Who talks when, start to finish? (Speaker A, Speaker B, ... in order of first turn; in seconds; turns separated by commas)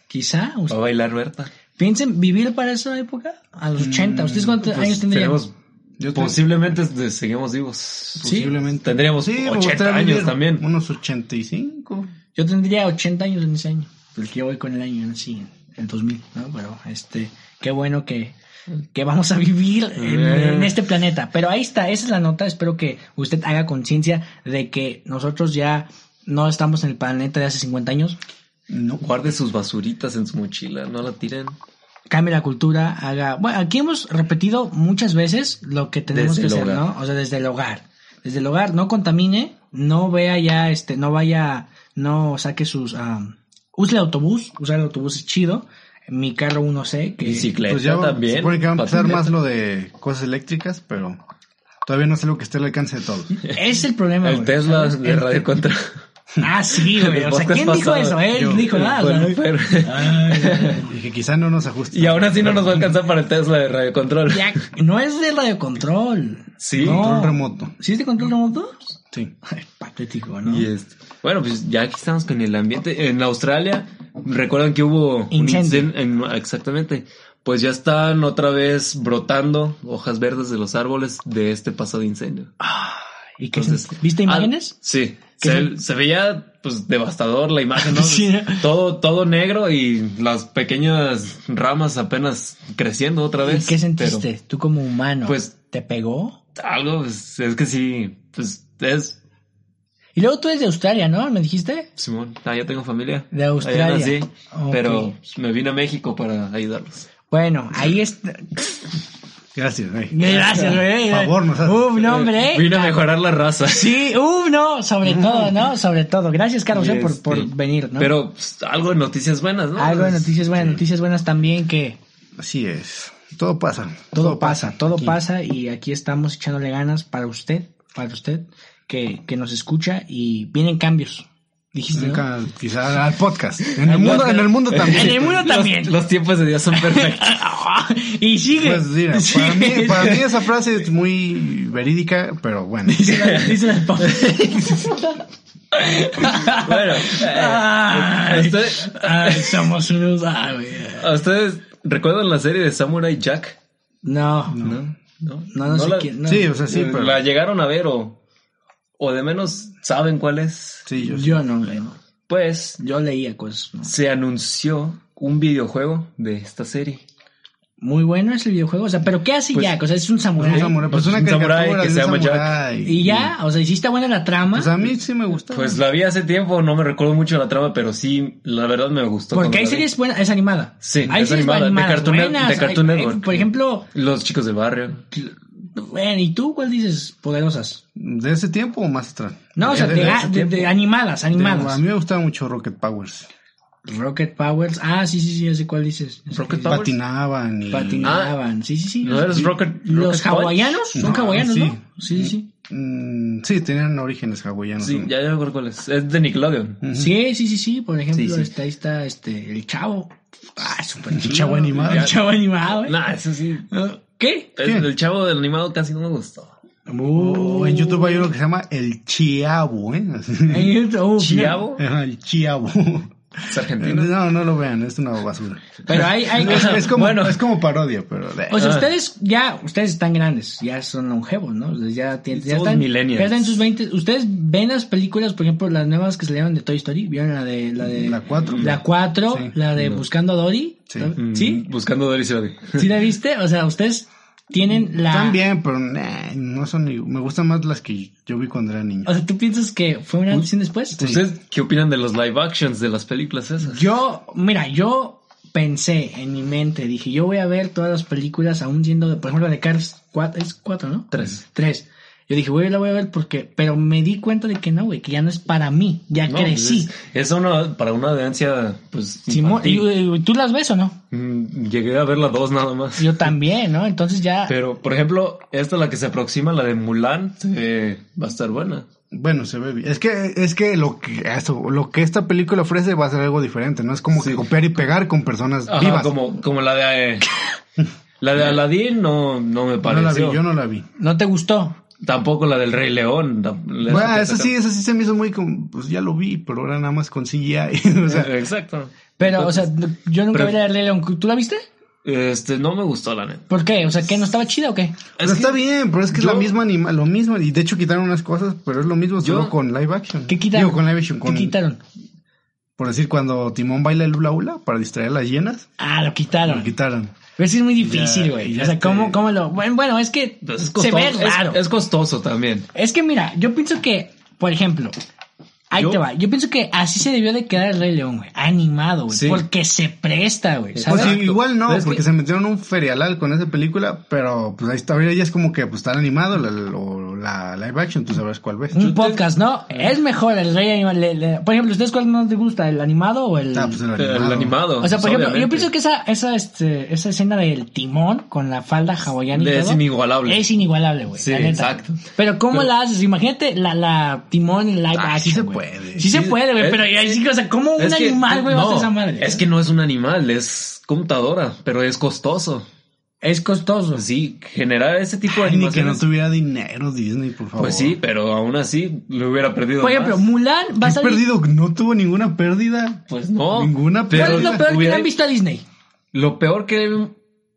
Speaker A: 0.1-0.8, Speaker B: 0.7-1.5, Speaker A: 1.8-5.4, Speaker C: 3.8-4.6, Speaker B: 4.6-5.5, Speaker C: 6.0-6.4, Speaker B: 6.1-8.3, Speaker C: 8.2-12.1, Speaker A: 8.2-8.5, Speaker B: 8.8-10.6, Speaker A: 12.3-18.4, Speaker A: 18.9-28.2, Speaker B: 20.0-20.9, Speaker C: 28.7-29.0, Speaker B: 29.0-31.6, Speaker A: 32.1-47.5, Speaker B: 36.1-36.9, Speaker B: 47.2-49.3, Speaker C: 47.3-51.2, Speaker C: 51.8-53.4, Speaker A: 53.5-55.4, Speaker B: 54.2-56.0, Speaker A: 56.4-60.9, Speaker B: 56.7-60.8, Speaker C: 58.3-58.7, Speaker C: 60.8-62.9, Speaker B: 61.9-64.5, Speaker A: 64.3-70.7, Speaker B: 66.6-67.1, Speaker C: 66.8-67.7, Speaker B: 70.4-82.5, Speaker A: 75.3-75.9, Speaker A: 82.6-84.7, Speaker B: 83.5-94.2, Speaker A: 85.4-85.7, Speaker A: 87.8-88.6, Speaker A: 93.4-96.4, Speaker B: 95.2-95.5, Speaker B: 96.6-99.2, Speaker A: 100.2-101.9, Speaker B: 102.0-107.1, Speaker A: 103.3-105.1, Speaker A: 107.3-108.6, Speaker C: 109.5-111.9, Speaker A: 110.1-113.0, Speaker B: 110.2-110.8, Speaker B: 112.0-114.1, Speaker A: 113.7-118.1, Speaker C: 115.0-115.5, Speaker B: 116.7-120.4, Speaker A: 119.8-122.0, Speaker C: 122.4-125.2, Speaker A: 124.1-132.2, Speaker C: 131.9-135.5, Speaker B: 133.7-137.4, Speaker A: 133.9-135.9, Speaker A: 136.7-140.3, Speaker C: 138.6-143.0, Speaker A: 142.8-145.2, Speaker B: 143.1-144.9, Speaker A: 145.7-151.1, Speaker B: 146.2-149.7, Speaker B: 151.0-153.6, Speaker A: 154.0-154.6, Speaker C: 154.5-154.8, Speaker B: 154.6-156.1, Speaker A: 155.5-156.5, Speaker C: 156.2-157.2, Speaker B: 156.7-158.2, Speaker B: 159.0-160.9, Speaker C: 160.8-161.4, Speaker A: 161.0-162.0, Speaker B: 162.3-162.8, Speaker A: 162.8-163.9, Speaker B: 163.8-167.0, Speaker A: 167.8-170.8, Speaker C: 170.4-173.3, Speaker B: 170.4-172.6, Speaker A: 172.8-174.7, Speaker C: 174.5-175.8, Speaker B: 175.5-179.9, Speaker A: 179.3-183.9, Speaker B: 180.8-185.0, Speaker A: 185.1-187.8, Speaker C: 187.9-190.3, Speaker A: 189.6-191.8, Speaker B: 189.6-190.8, Speaker C: 191.3-193.3, Speaker A: 193.8-196.8, Speaker B: 196.3-196.9, Speaker C: 196.7-198.2, Speaker A: 197.7-202.4, Speaker B: 198.0-198.3, Speaker B: 199.0-200.7, Speaker C: 200.9-205.1, Speaker B: 204.8-206.8, Speaker C: 206.8-207.1, Speaker A: 206.9-213.0, Speaker B: 208.1-208.5, Speaker C: 211.1-212.1, Speaker B: 211.8-213.7, Speaker A: 213.7-214.5, Speaker B: 214.6-216.5, Speaker A: 216.9-218.3, Speaker C: 217.1-220.8, Speaker A: 220.5-221.6, Speaker B: 221.2-221.8, Speaker C: 221.8-228.8, Speaker B: 223.5-224.1, Speaker A: 225.9-226.9, Speaker B: 225.9-227.4, Speaker A: 228.5-241.6, Speaker B: 228.6-228.9, Speaker B: 232.3-233.6, Speaker C: 237.8-238.8, Speaker B: 238.5-238.8, Speaker C: 239.3-239.5, Speaker B: 239.8-240.0, Speaker B: 241.2-242.9, Speaker A: 242.8-245.4, Speaker C: 245.1-249.1, Speaker A: 249.0-251.0, Speaker B: 250.9-253.9, Speaker C: 251.0-251.2, Speaker A: 253.6-266.9, Speaker B: 261.1-261.4, Speaker B: 266.3-269.9, Speaker A: 269.3-271.0, Speaker B: 271.1-273.3, Speaker A: 273.0-274.5, Speaker B: 274.5-278.9, Speaker C: 279.1-286.1, Speaker B: 284.1-284.4, Speaker B: 285.7-287.3, Speaker B: 288.2-290.4, Speaker C: 289.8-290.9, Speaker A: 291.0-291.8, Speaker B: 292.0-294.5, Speaker C: 293.8-298.3, Speaker B: 298.1-299.7, Speaker A: 299.2-301.6, Speaker B: 300.3-300.6, Speaker B: 302.0-303.5, Speaker A: 303.5-305.0, Speaker B: 305.2-305.6, Speaker C: 305.2-311.5, Speaker B: 306.1-306.5, Speaker B: 309.2-309.5, Speaker A: 310.3-311.8, Speaker C: 312.8-315.7, Speaker A: 315.8-316.7, Speaker C: 316.4-317.2, Speaker A: 317.4-321.6, Speaker C: 317.8-319.2, Speaker B: 320.4-322.7, Speaker A: 322.7-324.9, Speaker A: 325.7-331.1, Speaker B: 325.7-326.0, Speaker B: 329.1-329.4, Speaker B: 330.7-332.0, Speaker C: 330.9-338.8, Speaker A: 338.7-343.8, Speaker B: 338.8-339.9, Speaker C: 343.5-344.6, Speaker B: 343.9-345.7, Speaker A: 344.8-359.4, Speaker B: 349.3-350.4, Speaker B: 351.2-352.0, Speaker C: 354.9-356.1, Speaker B: 356.0-357.2, Speaker B: 357.8-362.6, Speaker A: 363.2-364.0, Speaker B: 363.9-366.0, Speaker C: 365.3-368.0, Speaker B: 367.6-370.3, Speaker A: 369.8-371.2, Speaker C: 370.8-373.0, Speaker B: 373.1-375.1, Speaker C: 373.5-374.6, Speaker A: 374.1-375.6, Speaker B: 376.1-377.1